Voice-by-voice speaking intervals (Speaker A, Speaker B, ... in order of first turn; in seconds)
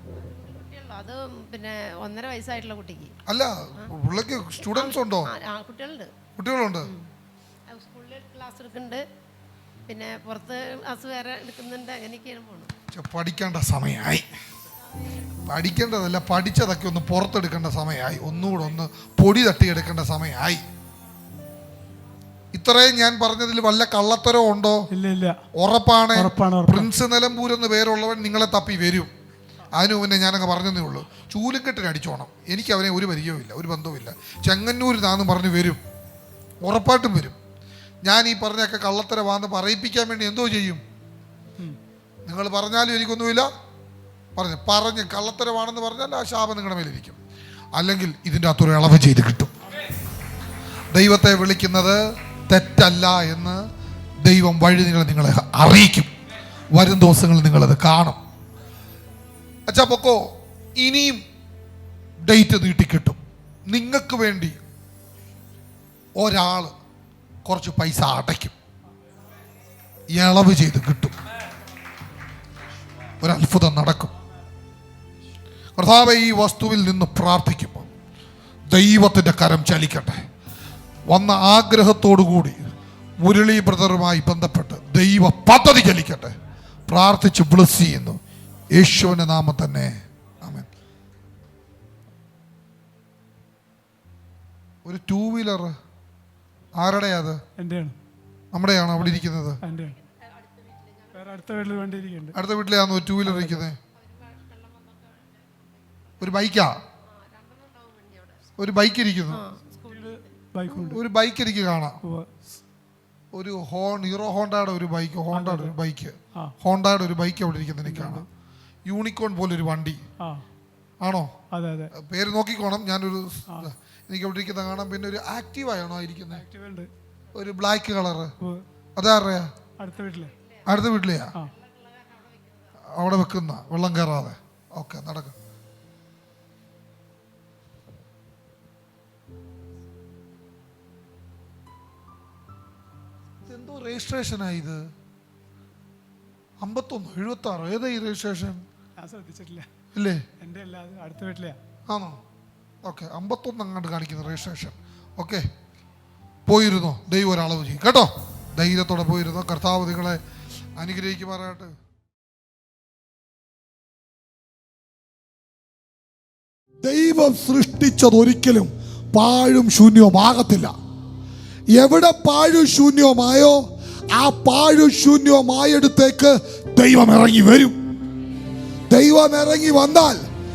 Speaker A: 0.1-3.1, 4.6-6.1, 6.8-7.1, 7.7-9.0, 9.9-12.7, 99.7-101.7, 103.9-106.4, 107.0-108.5, 109.3-110.3, 130.1-132.8
Speaker B: 3.3-5.3, 6.4-6.9, 12.9-14.3, 15.4-20.6, 22.5-24.9, 25.5-29.1, 29.7-35.8, 36.6-37.4, 38.0-40.8, 42.2-43.5, 44.4-47.2, 47.8-49.5, 50.9-53.6, 54.2-56.1, 56.7-58.2, 59.7-61.2, 62.2-64.6, 66.2-66.7, 67.5-68.5, 70.1-71.2, 73.2-74.1, 75.8-77.9, 78.7-80.2, 81.1-82.7, 83.2-86.3, 86.9-88.2, 88.7-90.7, 94.8-95.8, 96.7-97.4, 98.5-99.6, 102.3-103.8, 106.2-106.8, 108.6-109.4, 110.7-112.0, 113.3-118.2, 118.8-120.0, 121.0-121.3, 121.9-126.4, 127.3-128.3, 129.0-129.5, 130.7-131.3, 132.8-135.3, 143.4-144.9, 146.6-148.6, 149.9-150.2, 151.9-152.2, 152.8-155.5, 156.5-160.2, 160.8-161.7, 166.8-170.7, 171.8-177.8, 178.9-180.2
Speaker C: 24.9-25.4, 26.1-26.9, 97.5-98.0, 99.0-100.0, 101.1-102.3, 103.2-103.7, 109.8-111.0, 112.0-112.6, 115.3-115.8, 117.8-118.3, 120.2-120.4, 121.5-121.9, 126.3-126.9, 129.8-130.3, 149.0-149.7, 150.4-151.6